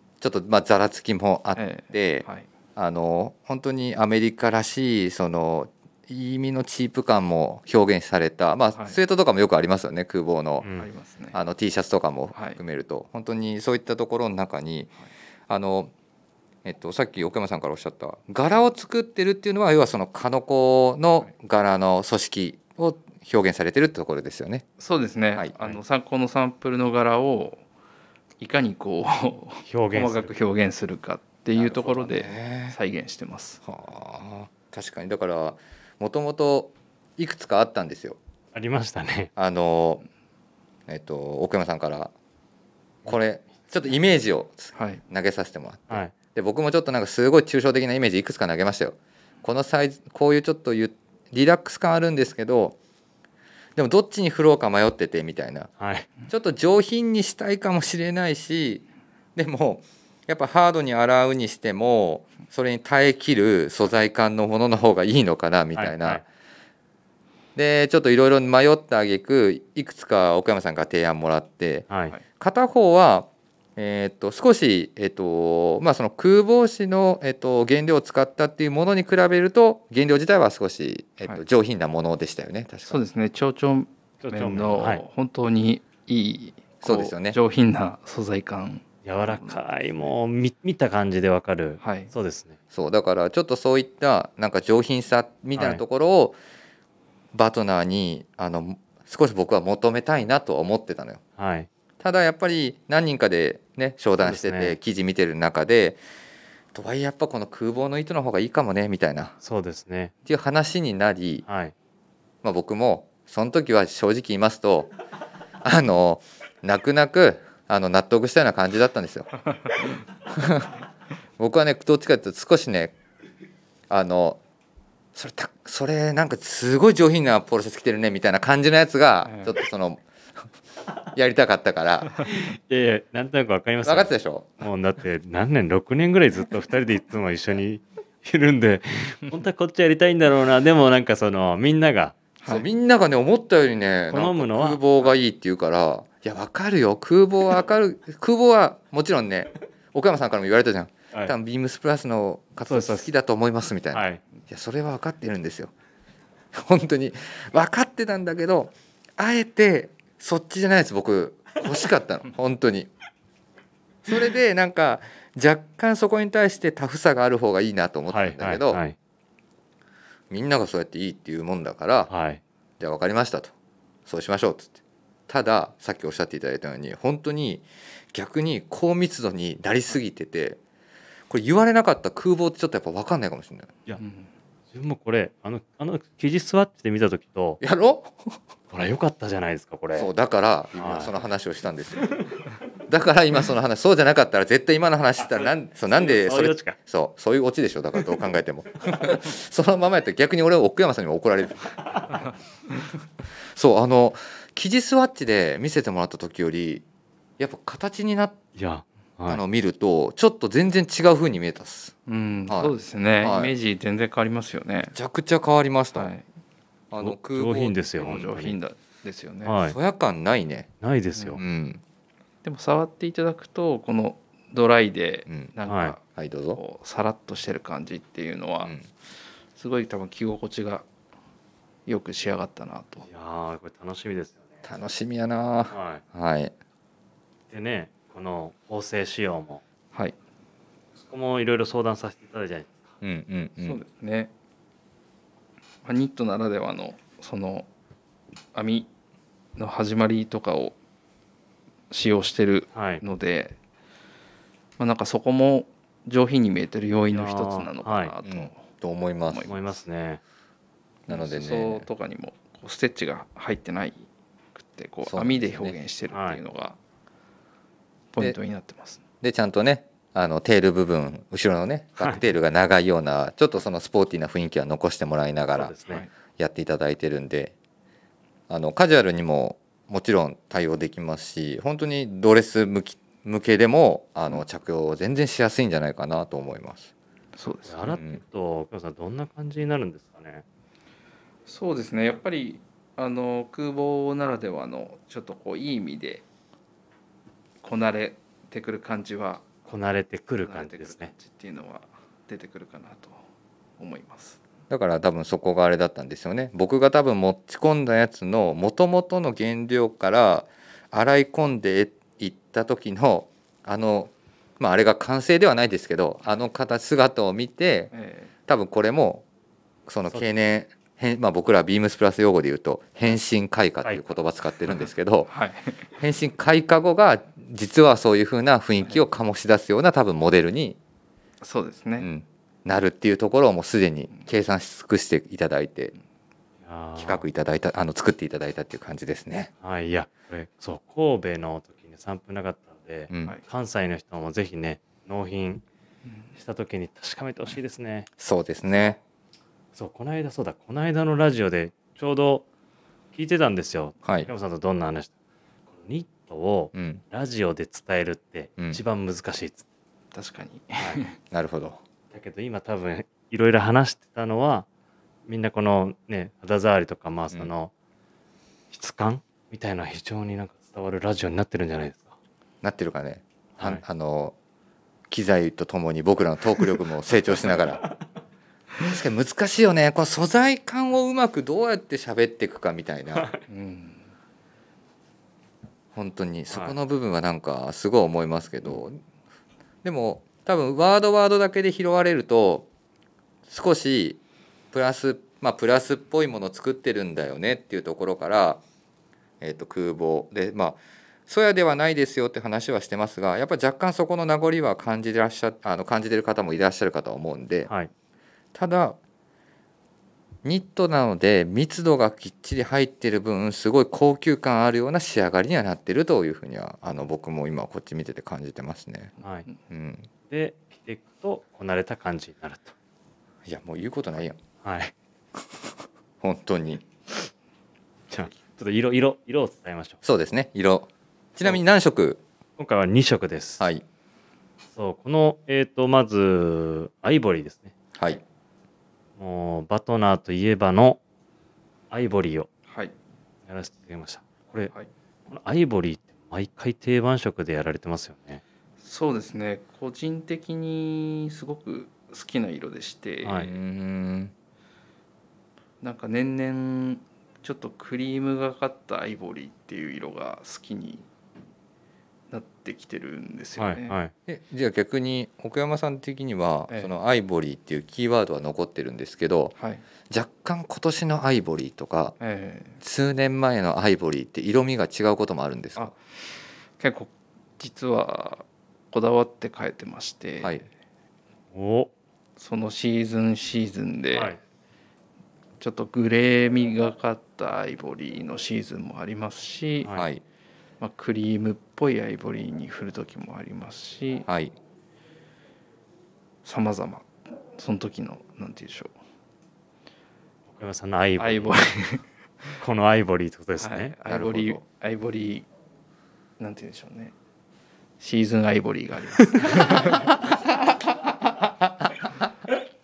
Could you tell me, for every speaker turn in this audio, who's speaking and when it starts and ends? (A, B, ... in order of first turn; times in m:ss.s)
0:00.2-0:10.6 A
0:01.6-0:02.5 B
0:10.6-0:10.9 C
0:10.8-0:11.4 B
0:11.3-0:14.9 A
0:15.5-0:15.9 A
0:16.6-0:24.6 A
0:24.8-0:27.6 B
0:25.4-0:25.7 A
0:28.4-0:33.6 B
0:29.6-0:30.3 C
0:31.6-0:32.8 A
0:33.6-0:38.2 A
0:38.5-0:39.3 C
0:39.4-0:40.0 A
0:40.9-0:42.1 A
0:43.0-0:52.8 A
0:44.8-0:45.0 B
0:53.8-0:55.7 A
0:55.8-0:56.1 C
0:56.3-0:58.8 A
0:59.4-1:06.2 A
1:05.8-1:06.2 C
1:07.6-1:23.0 A
1:11.9-1:12.1 C
1:22.9-1:30.1 B
1:24.2-1:25.0 C
1:26.8-1:27.4 A
1:29.0-1:32.6 C
1:31.8-1:32.1 B
1:32.7-1:36.4 A
1:35.6-1:35.8 C
1:37.3-1:41.2 A
1:41.4-1:41.7 C
1:42.0-1:46.0 A
1:44.2-1:44.8 C
1:46.7-1:49.4 A
1:49.4-1:50.1 C
1:50.3-1:51.4 A
1:51.5-1:51.7 C
1:52.4-1:54.9 A
1:55.6-1:59.3 A
2:00.3-2:00.8 A
2:01.4-2:02.9 A
2:03.9-2:04.4 A
2:05.1-2:10.0 A
2:09.2-2:09.5 B
2:11.1-2:12.1 A
2:12.3-2:22.2 C
2:13.8-2:14.5 A
2:22.5-2:35.7 A
2:24.1-2:24.8 C
2:32.7-2:33.1 C
2:33.9-2:34.2 C
2:36.5-2:42.9 A
2:44.1-2:48.8 A
2:48.1-2:49.0 C
2:50.3-2:52.1 A
2:52.1-2:52.4 C
2:52.8-2:53.5 A
2:54.1-2:54.8 A
2:55.3-3:00.6 A
3:01.3-3:03.7 A
3:04.0-3:04.3 B
3:04.7-3:07.6 C
3:07.6-3:08.3 A
3:08.7-3:10.1 C
3:09.9-3:12.1 A
3:10.8-3:11.1 C
3:12.9-3:22.2 A
3:15.2-3:16.8 C
3:23.6-3:26.8 A
3:27.4-3:28.4 A
3:28.6-3:29.4 C
3:29.3-3:31.9 A
3:32.1-3:34.9 B
3:32.5-3:33.5 A
3:34.9-3:36.1 A
3:35.9-3:36.2 B
3:36.9-3:38.2 A
3:37.0-3:38.6 C
3:38.0-3:39.6 B
3:39.4-3:39.8 C
3:39.6-3:40.7 A
3:40.8-3:41.4 C
3:41.4-3:41.8 A
3:42.4-3:46.0 B
3:45.7-3:46.0 C
3:46.2-3:46.6 A
3:46.5-3:48.7 B
3:49.6-3:50.9 B
3:51.9-3:53.1 B
3:53.1-3:54.6 C
3:54.6-3:56.5 A
3:55.7-3:56.0 C
3:57.5-3:59.6 C
4:01.0-4:02.9 C
4:03.0-4:03.8 A
4:03.6-4:04.3 B
4:05.8-4:07.7 B
4:08.5-4:08.9 B
4:09.6-4:10.8 B
4:11.9-4:13.6 B
4:12.7-4:13.0 C
4:14.8-4:18.6 B
4:17.1-4:18.1 C
4:18.2-4:19.5 A
4:19.5-4:20.2 C
4:21.1-4:26.8 B
4:21.1-4:21.9 A
4:25.1-4:25.8 A
4:26.1-4:26.4 C
4:28.1-4:29.0 B
4:29.2-4:35.8 A
4:35.5-4:36.0 C
4:36.4-4:37.5 A
4:38.5-4:46.9 A
4:47.4-4:48.0 B
4:47.6-4:50.4 C
4:51.5-4:56.2 B
4:57.6-4:59.5 B
4:59.7-5:01.1 C
5:00.5-5:03.2 B
5:03.8-5:04.4 B
5:04.7-5:17.9 A
5:17.9-5:18.3 B
5:18.5-5:19.2 A
5:19.9-5:25.3 A
5:23.8-5:24.1 C
5:25.3-5:25.8 B
5:26.0-5:30.8 A
5:31.4-5:32.1 B
5:32.0-5:35.9 A
5:36.6-5:37.2 C
5:37.0-5:39.5 A
5:39.6-5:45.6 C
5:43.1-5:43.4 A
5:46.4-5:48.1 C
5:48.2-5:49.0 A
5:49.8-5:52.5 C
5:53.1-5:55.1 C
5:55.7-5:59.6 C
5:56.7-5:57.0 A
6:00.1-6:01.2 B
6:01.3-6:01.8 A
6:02.1-6:04.6 C
6:05.3-6:07.7 C
6:08.7-6:12.1 C
6:12.6-6:14.4 A
6:15.1-6:17.8 A
6:18.8-6:23.3 A
6:23.1-6:23.4 C
6:23.5-6:24.0 B
6:25.9-6:29.0 A
6:26.5-6:26.8 C
6:29.8-6:32.7 A
6:33.5-6:34.2 A
6:34.7-6:38.6 A
6:39.4-6:47.7 A
6:48.5-6:49.0 A
6:50.4-6:59.1 A
6:59.7-7:00.1 A
7:00.3-7:02.7 C
7:03.5-7:04.4 A
7:04.6-7:04.9 C
7:06.2-7:06.9 A
7:08.1-7:10.0 C
7:10.0-7:12.2 A
7:12.6-7:13.6 C
7:14.8-7:17.8 C
7:19.2-7:21.0 C
7:21.9-7:22.5 C
7:22.7-7:22.9 B
7:23.5-7:24.7 C
7:25.3-7:28.4 C
7:28.8-7:33.4 B
7:33.2-7:33.5 C
7:33.4-7:34.3 A
7:35.8-7:41.1 B
7:42.3-7:44.0 B
7:43.6-7:44.1 C
7:44.3-7:49.5 A
7:49.6-7:49.8 B
7:50.1-7:52.1 A
7:52.2-7:52.8 B
7:52.8-7:55.9 A
7:56.8-8:00.7 B
8:01.5-8:01.9 C
8:02.4-8:04.3 B
8:05.6-8:09.9 B
8:09.9-8:10.2 A
8:10.8-8:14.3 B
8:14.3-8:14.5 A
8:16.4-8:18.9 B
8:20.5-8:21.5 C
8:21.2-8:22.0 B
8:22.6-8:23.9 C
8:23.6-8:25.5 B
8:24.1-8:24.6 A
8:26.4-8:27.1 B
8:28.0-8:30.0 B
8:29.4-8:29.7 C
8:29.8-8:32.3 A